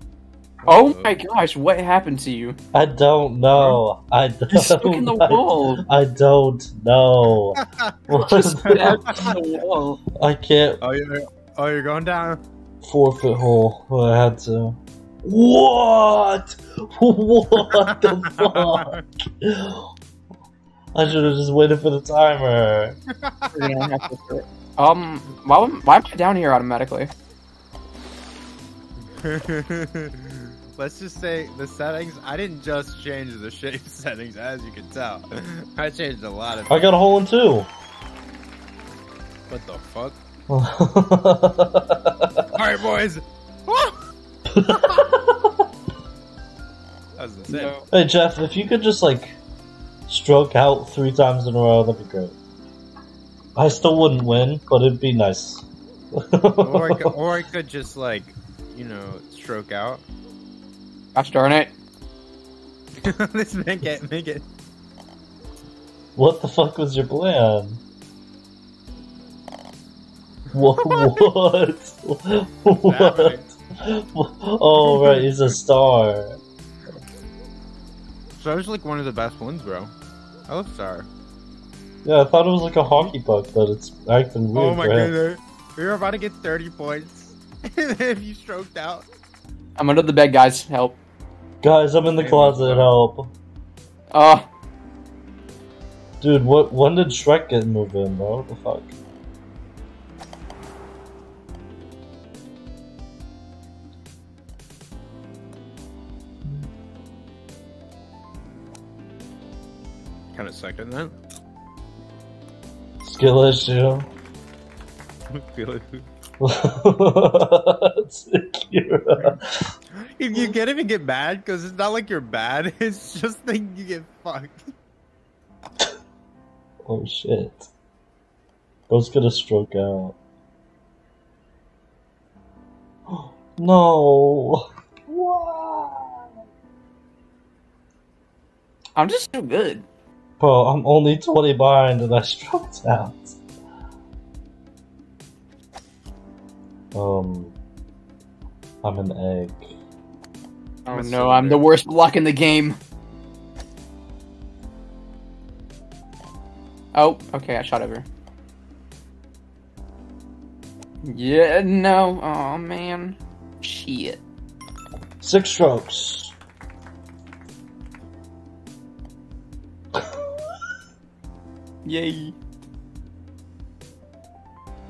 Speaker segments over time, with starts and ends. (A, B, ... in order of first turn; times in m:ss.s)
0:00.6-0:01.1 A
0:00.7-0:02.6 B
0:02.7-0:09.3 C
0:04.5-0:05.8 B
0:07.5-0:08.0 A
0:08.2-0:10.0 B
0:08.8-0:09.4 A
0:10.2-0:10.8 C
0:10.8-0:12.4 A
0:12.8-0:19.9 C
0:17.6-0:19.0 A
0:20.9-0:23.0 C
0:23.1-0:23.9 A
0:23.5-0:27.1 B
0:29.0-0:36.8 A
0:36.7-0:37.7 C
0:39.5-0:40.2 A
0:40.5-0:42.5 C
0:42.5-0:44.0 A
0:44.5-0:45.6 C
0:44.6-0:45.1 A
0:47.2-0:47.8 A
0:47.5-0:47.8 B
0:47.9-0:49.4 C
0:50.1-0:52.4 C
0:53.6-0:57.2 C
0:56.6-1:00.0 A
1:01.1-1:01.7 B
1:03.0-1:04.4 A
1:06.2-1:07.8 C
1:10.5-1:16.4 C
1:10.8-1:11.2 A
1:12.8-1:13.5 A
1:14.8-1:15.6 A
1:18.4-1:19.9 A
1:20.5-1:21.1 A
1:22.0-1:25.1 C
1:24.5-1:29.0 A
1:29.8-1:31.0 B
1:31.6-1:33.3 C
1:32.2-1:32.9 A
1:34.1-1:34.5 B
1:36.2-1:38.9 C
1:50.3-1:51.1 A
1:53.0-1:54.1 C
1:55.3-1:56.0 A
1:56.4-1:59.7 C
1:59.9-2:04.6 A
2:06.8-2:07.7 C
2:08.9-2:10.2 C
2:13.1-2:16.3 C
2:19.0-2:19.8 B
2:20.4-2:23.4 C
2:26.9-2:27.5 C
2:28.8-2:29.7 C
2:30.9-2:31.6 A
2:30.9-2:32.8 B
2:36.9-2:38.0 B
2:41.0-2:44.2 B
2:45.2-2:46.3 C
2:51.8-2:52.3 B